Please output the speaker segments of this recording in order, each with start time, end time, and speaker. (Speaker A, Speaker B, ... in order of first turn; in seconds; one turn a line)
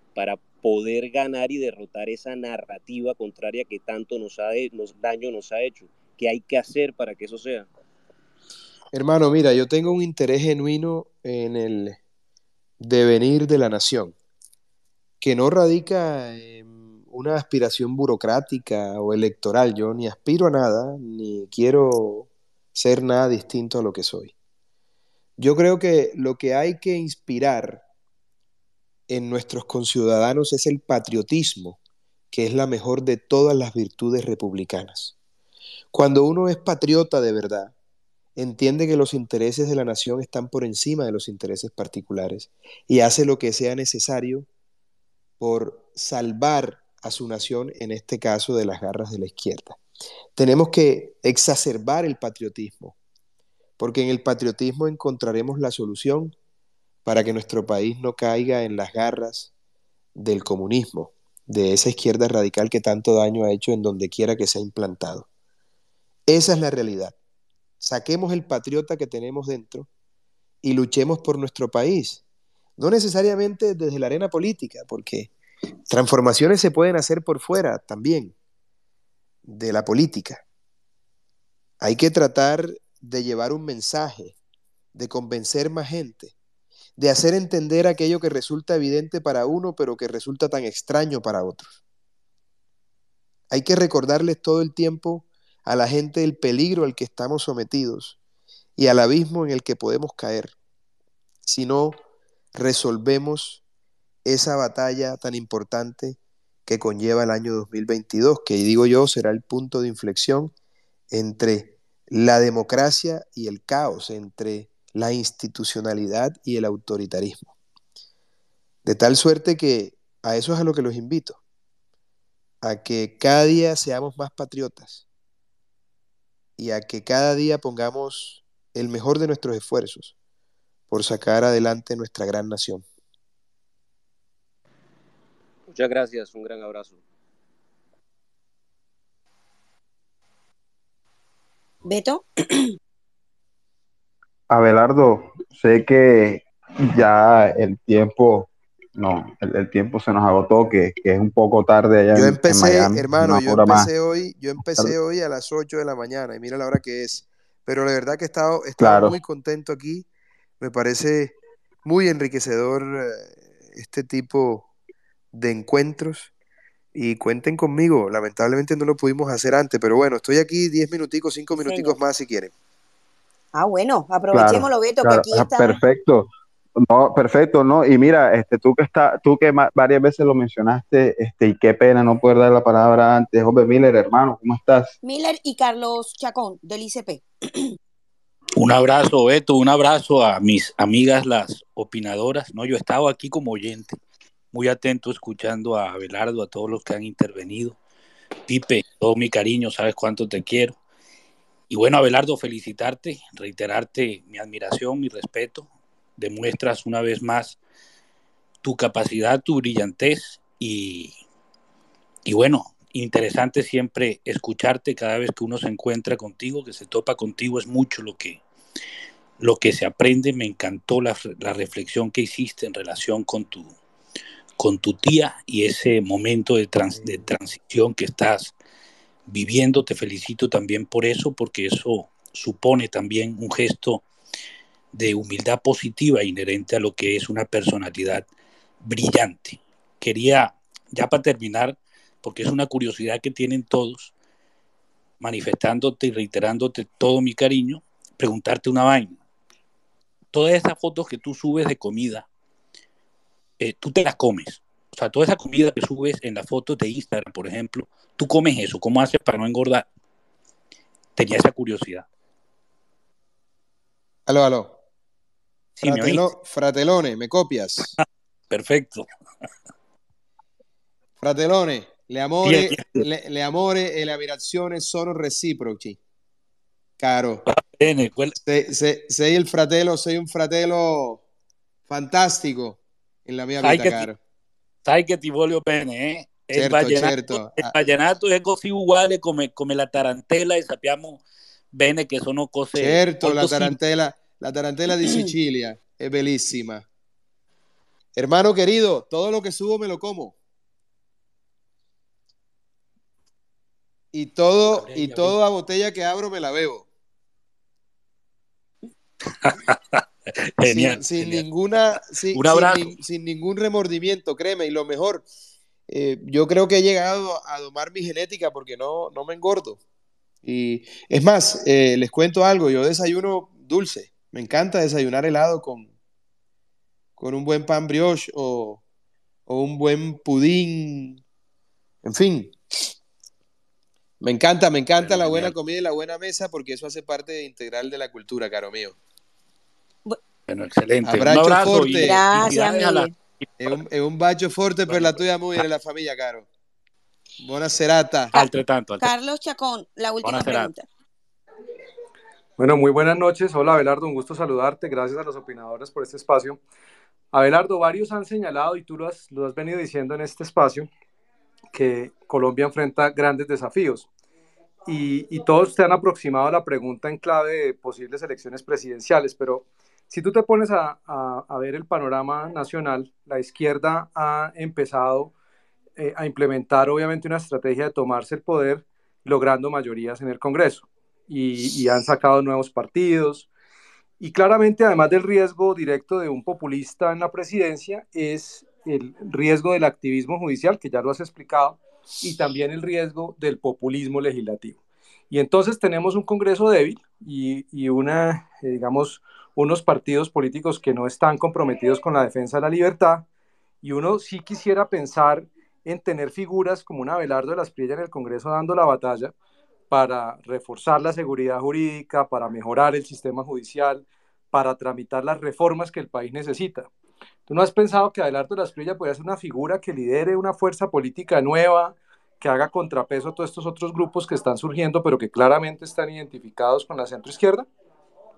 Speaker A: 0.1-7.7
Speaker B: 8.9-12.0
Speaker B: 12.8-14.1
Speaker B: 15.2-24.3
Speaker B: 25.4-27.8
Speaker B: 29.1-31.8
Speaker B: 32.3-35.1
Speaker B: 35.9-37.7
Speaker B: 38.4-44.5
Speaker B: 45.4-49.8
Speaker B: 50.4-53.0
Speaker B: 53.8-56.3
Speaker B: 57.0-59.5
Speaker B: 60.1-65.3
Speaker B: 66.3-67.2
Speaker B: 67.8-69.9
Speaker B: 70.6-72.2
Speaker B: 72.8-75.3
Speaker B: 75.9-78.3
Speaker B: 79.5-80.4
Speaker B: 81.8-84.4
Speaker B: 84.9-86.3
Speaker B: 87.0-91.8
Speaker B: 93.5-98.2
Speaker B: 98.8-100.5
Speaker B: 101.5-102.0
Speaker B: 102.5-103.6
Speaker B: 104.2-110.5
Speaker B: 111.1-117.5
Speaker B: 118.8-121.4
Speaker B: 122.6-125.0
Speaker B: 126.6-130.1
Speaker B: 130.9-132.8
Speaker A: 135.7-137.0
Speaker C: 141.8-142.7
Speaker D: 144.5-153.9
Speaker B: 152.1-160.1
Speaker D: 158.8-159.2
Speaker B: 160.6-164.7
Speaker B: 165.3-166.3
Speaker B: 166.9-172.5
Speaker C: 171.5-172.0
Speaker C: 173.5-175.8
Speaker D: 174.3-176.3
Speaker D: 176.8-184.9
Speaker C: 185.0-187.7
Speaker E: 188.6-194.0
Speaker E: 194.5-197.8
Speaker E: 198.5-200.8
Speaker E: 201.7-207.6
Speaker E: 208.6-211.2
Speaker E: 212.2-218.4
Speaker E: 219.4-223.7
Speaker E: 224.6-228.5
Speaker E: 229.3-234.0
Speaker E: 234.9-238.3
Speaker E: 238.8-244.1
Speaker E: 245.2-249.2
Speaker E: 250.3-252.2
Speaker E: 253.6-259.9
Speaker E: 261.1-262.0
Speaker B: 264.3-264.8
Speaker E: 265.8-266.3
Speaker B: 265.8-267.9
Speaker E: 267.8-269.1
Speaker B: 271.2-276.0
Speaker E: 272.4-273.1
Speaker B: 277.0-277.4
Speaker E: 277.4-278.4
Speaker B: 278.4-281.2
Speaker B: 281.9-284.1
Speaker E: 283.6-284.1
Speaker E: 284.8-293.8
Speaker B: 286.5-287.7
Speaker B: 292.7-296.8
Speaker C: 295.0-295.3
Speaker B: 298.1-300.4
Speaker B: 304.1-306.9
Speaker E: 304.7-305.3
Speaker E: 309.4-310.0
Speaker E: 310.6-311.4
Speaker B: 310.7-315.2
Speaker E: 312.3-313.0
Speaker B: 315.9-319.8
Speaker B: 320.4-325.9
Speaker B: 327.2-328.8
Speaker B: 329.5-331.2
Speaker B: 332.0-332.5
Speaker B: 334.2-339.0
Speaker E: 335.0-335.5
Speaker E: 340.5-343.8
Speaker B: 341.0-342.2
Speaker C: 342.0-343.1
Speaker B: 343.6-346.5
Speaker E: 344.9-345.6
Speaker B: 347.4-348.4
Speaker E: 348.3-349.1
Speaker C: 349.0-350.8
Speaker E: 350.2-350.7
Speaker F: 352.6-356.6
Speaker F: 357.3-360.9
Speaker F: 361.7-364.1
Speaker F: 364.9-375.3
Speaker F: 376.0-383.5
Speaker F: 384.2-394.8
Speaker F: 395.3-403.2
Speaker F: 403.8-409.3
Speaker F: 409.9-416.9
Speaker F: 417.5-427.6